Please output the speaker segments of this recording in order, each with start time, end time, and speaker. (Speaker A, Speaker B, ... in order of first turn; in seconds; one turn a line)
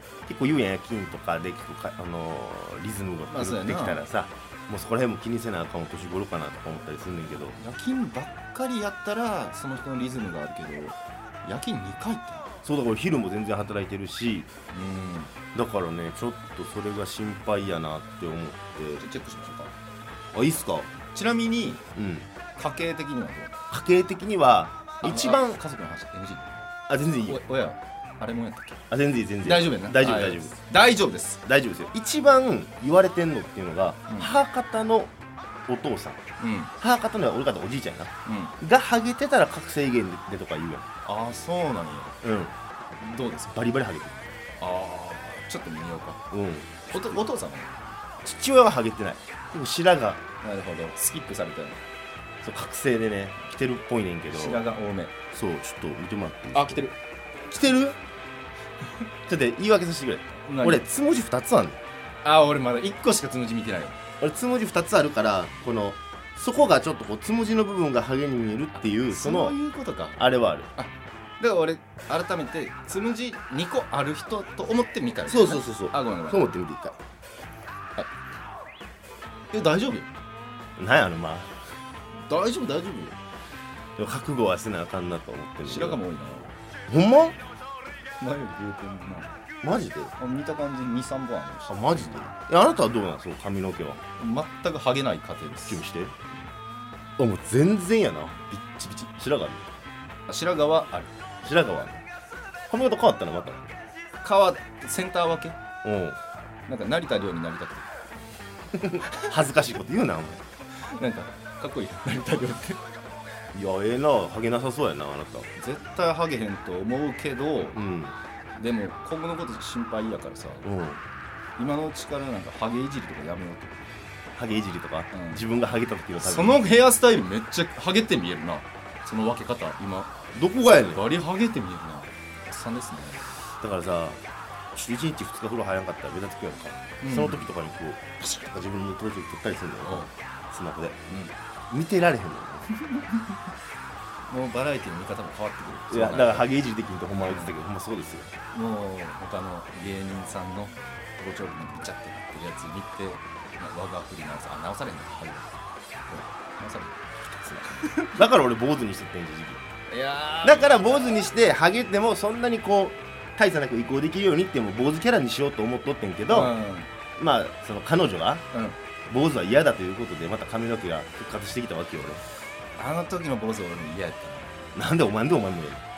Speaker A: 0.3-7.6
Speaker B: 3.3-4.0
Speaker B: 7.6-12.5
Speaker A: 12.6-14.5
Speaker B: 14.7-15.3
Speaker A: 15.5-19.0
Speaker B: 19.0-19.7
Speaker A: 20.3-20.9
Speaker B: 21.1-21.8
Speaker A: 21.9-22.3
Speaker B: 22.6-23.5
Speaker A: 23.7-25.6
Speaker B: 25.0-26.5
Speaker A: 26.9-27.4
Speaker B: 27.2-28.8
Speaker A: 28.9-30.5
Speaker B: 29.4-31.4
Speaker A: 31.4-35.1
Speaker A: 35.7-36.2
Speaker B: 36.4-36.7
Speaker A: 36.8-40.9
Speaker B: 38.3-38.5
Speaker B: 41.0-42.1
Speaker A: 42.2-42.5
Speaker B: 43.0-43.6
Speaker A: 43.5-44.3
Speaker B: 44.6-46.2
Speaker A: 46.3-47.2
Speaker B: 46.9-47.7
Speaker A: 48.2-50.2
Speaker B: 50.4-51.9
Speaker A: 52.4-54.6
Speaker B: 54.3-55.1
Speaker A: 55.3-56.9
Speaker B: 56.5-57.0
Speaker A: 57.5-58.0
Speaker A: 59.3-61.8
Speaker B: 60.5-60.9
Speaker B: 62.2-64.0
Speaker A: 64.2-69.6
Speaker B: 69.1-70.2
Speaker A: 70.2-70.7
Speaker B: 70.8-76.5
Speaker A: 75.3-77.0
Speaker B: 79.5-80.1
Speaker A: 80.8-81.5
Speaker B: 82.2-83.2
Speaker A: 84.0-86.0
Speaker B: 85.7-86.5
Speaker A: 86.9-87.4
Speaker B: 88.2-89.3
Speaker A: 89.6-90.1
Speaker B: 90.2-92.3
Speaker A: 91.7-94.0
Speaker B: 94.2-95.8
Speaker A: 95.6-96.2
Speaker A: 97.2-99.7
Speaker B: 100.3-101.1
Speaker A: 101.4-102.0
Speaker A: 102.7-103.7
Speaker B: 104.2-105.6
Speaker A: 105.8-106.2
Speaker B: 106.7-107.9
Speaker A: 108.8-110.4
Speaker B: 110.8-112.8
Speaker A: 113.5-115.5
Speaker B: 115.6-117.8
Speaker A: 117.8-118.2
Speaker B: 118.6-120.7
Speaker A: 120.6-121.0
Speaker B: 121.6-123.9
Speaker A: 124.4-126.6
Speaker B: 125.1-125.4
Speaker B: 126.2-130.2
Speaker A: 130.3-131.1
Speaker B: 130.7-133.3
Speaker A: 133.6-134.2
Speaker A: 134.7-141.0
Speaker B: 137.0-137.5
Speaker B: 139.8-140.1
Speaker A: 141.7-142.7
Speaker B: 142.8-143.3
Speaker B: 144.3-146.5
Speaker A: 145.9-148.3
Speaker B: 147.2-147.5
Speaker B: 148.5-155.5
Speaker B: 156.1-158.2
Speaker A: 158.2-159.6
Speaker B: 159.9-160.9
Speaker A: 160.4-166.5
Speaker B: 166.3-166.9
Speaker A: 167.2-168.5
Speaker A: 169.1-172.2
Speaker B: 172.8-174.7
Speaker A: 174.8-175.8